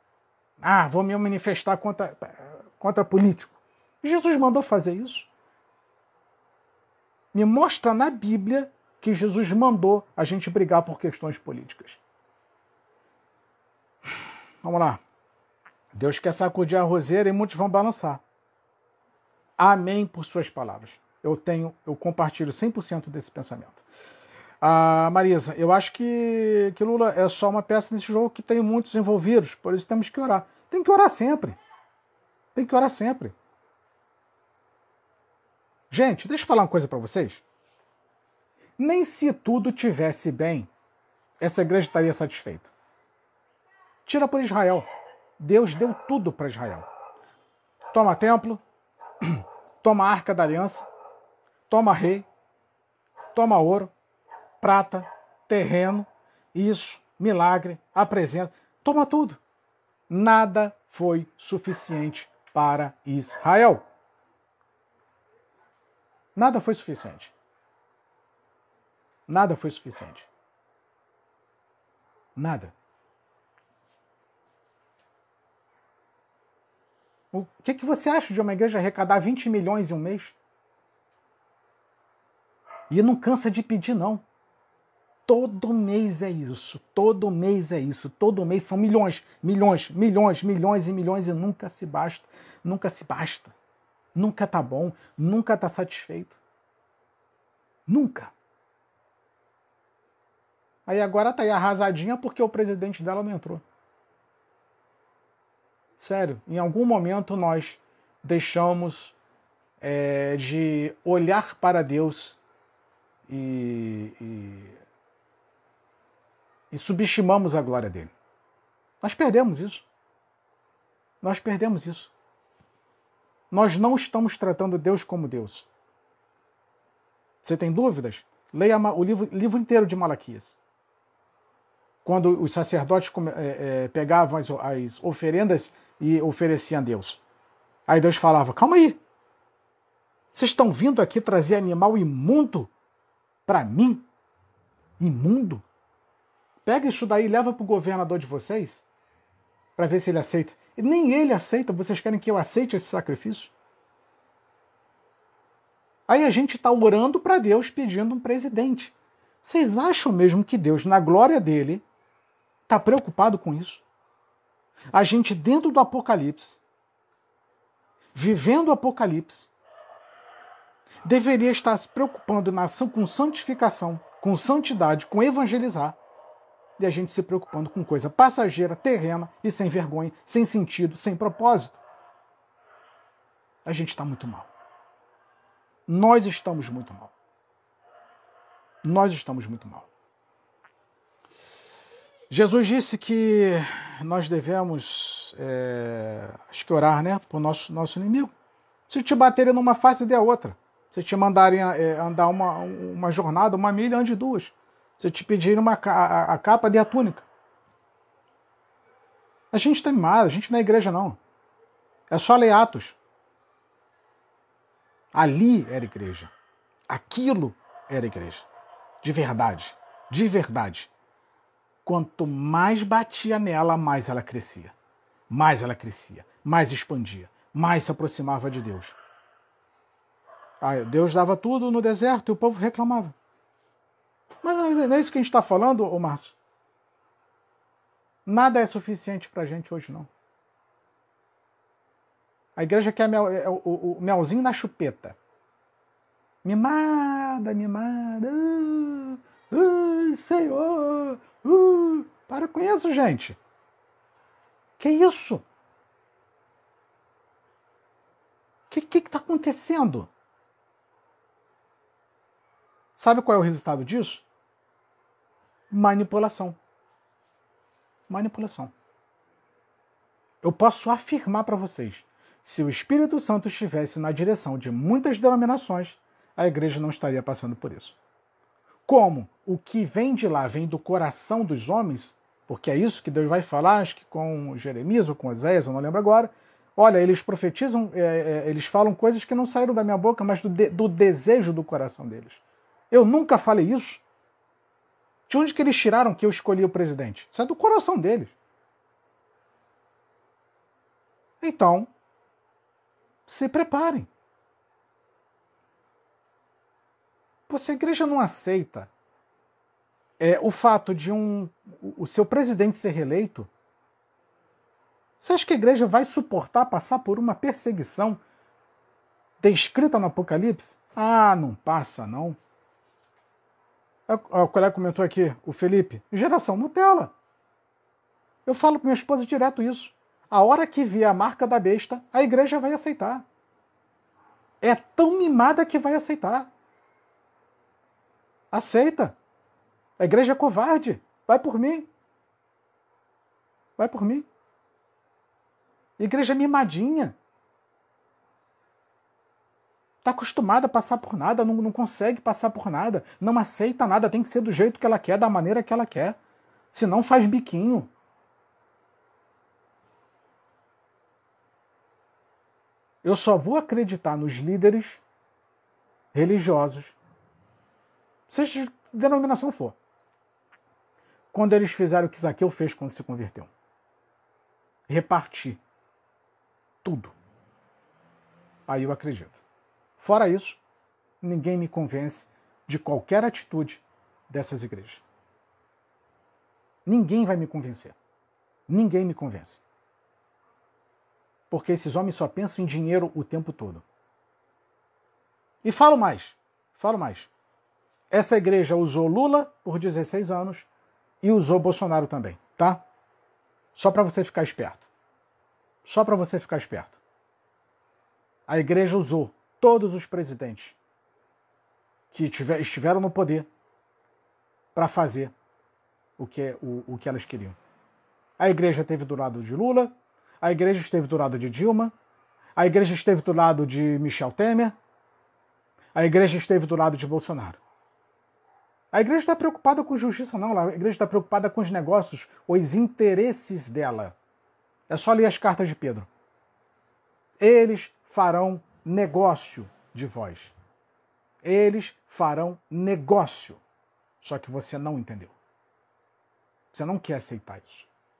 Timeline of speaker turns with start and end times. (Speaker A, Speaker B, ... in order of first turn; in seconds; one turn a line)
Speaker A: 0.6-5.3
Speaker A: 7.3-12.0
Speaker A: 14.6-15.0
Speaker A: 15.9-18.2
Speaker A: 19.6-23.8
Speaker A: 24.6-31.6
Speaker A: 32.5-33.3
Speaker A: 35.9-37.4
Speaker A: 38.8-40.7
Speaker A: 41.4-42.7
Speaker A: 44.0-44.9
Speaker A: 45.4-46.9
Speaker A: 47.9-48.6
Speaker A: 49.2-50.9
Speaker A: 51.7-52.3
Speaker A: 53.3-53.9
Speaker A: 54.6-59.4
Speaker A: 60.1-63.8
Speaker A: 66.3-67.3
Speaker A: 69.3-70.3
Speaker A: 72.3-72.7
Speaker A: 77.3-80.3
Speaker A: 82.9-84.2
Speaker A: 85.2-93.5
Speaker A: 94.1-96.4
Speaker A: 97.9-98.3
Speaker A: 100.8-103.6
Speaker A: 106.0-109.2
Speaker A: 109.8-112.4
Speaker A: 113.3-114.8
Speaker A: 116.7-118.1
Speaker A: 119.0-119.8
Speaker A: 121.2-122.1
Speaker A: 123.5-125.7
Speaker A: 127.4-130.6
Speaker A: 132.0-137.2
Speaker A: 137.9-139.0
Speaker A: 140.3-142.7
Speaker A: 143.4-144.1
Speaker A: 145.0-145.6
Speaker A: 146.6-148.8
Speaker A: 149.8-153.5
Speaker A: 156.1-161.8
Speaker A: 162.7-163.8
Speaker A: 164.9-166.6
Speaker A: 168.1-169.5
Speaker A: 171.0-176.0
Speaker A: 176.8-181.8
Speaker A: 183.6-184.5
Speaker A: 185.9-187.1
Speaker A: 188.8-189.9
Speaker A: 192.3-198.3
Speaker A: 198.9-207.2
Speaker A: 209.5-211.2
Speaker A: 212.1-213.0
Speaker A: 215.1-216.3
Speaker A: 216.9-218.5
Speaker A: 219.0-220.9
Speaker A: 221.8-224.7
Speaker A: 225.3-228.9
Speaker A: 230.6-233.1
Speaker A: 234.4-236.3
Speaker A: 238.2-240.1
Speaker A: 242.6-245.2
Speaker A: 246.4-253.4
Speaker A: 254.8-255.4
Speaker A: 258.7-260.1
Speaker A: 263.0-264.2
Speaker A: 265.7-266.6
Speaker A: 268.1-268.7
Speaker A: 270.4-278.0
Speaker A: 278.9-292.4
Speaker A: 292.9-294.0
Speaker A: 295.3-298.3
Speaker A: 301.4-301.9
Speaker A: 303.2-304.1
Speaker A: 307.5-308.9
Speaker A: 310.2-313.5
Speaker A: 315.2-318.2
Speaker A: 319.4-322.4
Speaker A: 324.1-327.1
Speaker A: 328.4-333.2
Speaker A: 334.6-336.5
Speaker A: 338.5-339.2
Speaker A: 340.0-341.9
Speaker A: 343.8-344.3
Speaker A: 346.0-347.1
Speaker A: 350.0-356.1
Speaker A: 356.7-357.9
Speaker A: 363.0-365.0
Speaker A: 366.1-366.9
Speaker A: 368.3-369.8
Speaker A: 371.3-373.5
Speaker A: 374.9-375.6
Speaker A: 376.8-377.1
Speaker A: 378.7-379.4
Speaker A: 380.0-380.6
Speaker A: 381.2-385.0
Speaker A: 386.9-388.0
Speaker A: 388.7-389.6
Speaker A: 391.5-393.8
Speaker A: 395.6-397.3
Speaker A: 398.1-400.7
Speaker A: 401.2-402.8
Speaker A: 403.7-404.9
Speaker A: 405.8-407.0
Speaker A: 408.5-410.8
Speaker A: 412.1-413.5
Speaker A: 414.7-415.3
Speaker A: 416.2-417.6
Speaker A: 418.4-421.9
Speaker A: 422.6-424.8
Speaker A: 425.9-427.6
Speaker A: 428.9-434.1
Speaker A: 434.9-436.1
Speaker A: 437.4-440.5
Speaker A: 441.4-443.6
Speaker A: 444.2-445.3
Speaker A: 446.7-447.9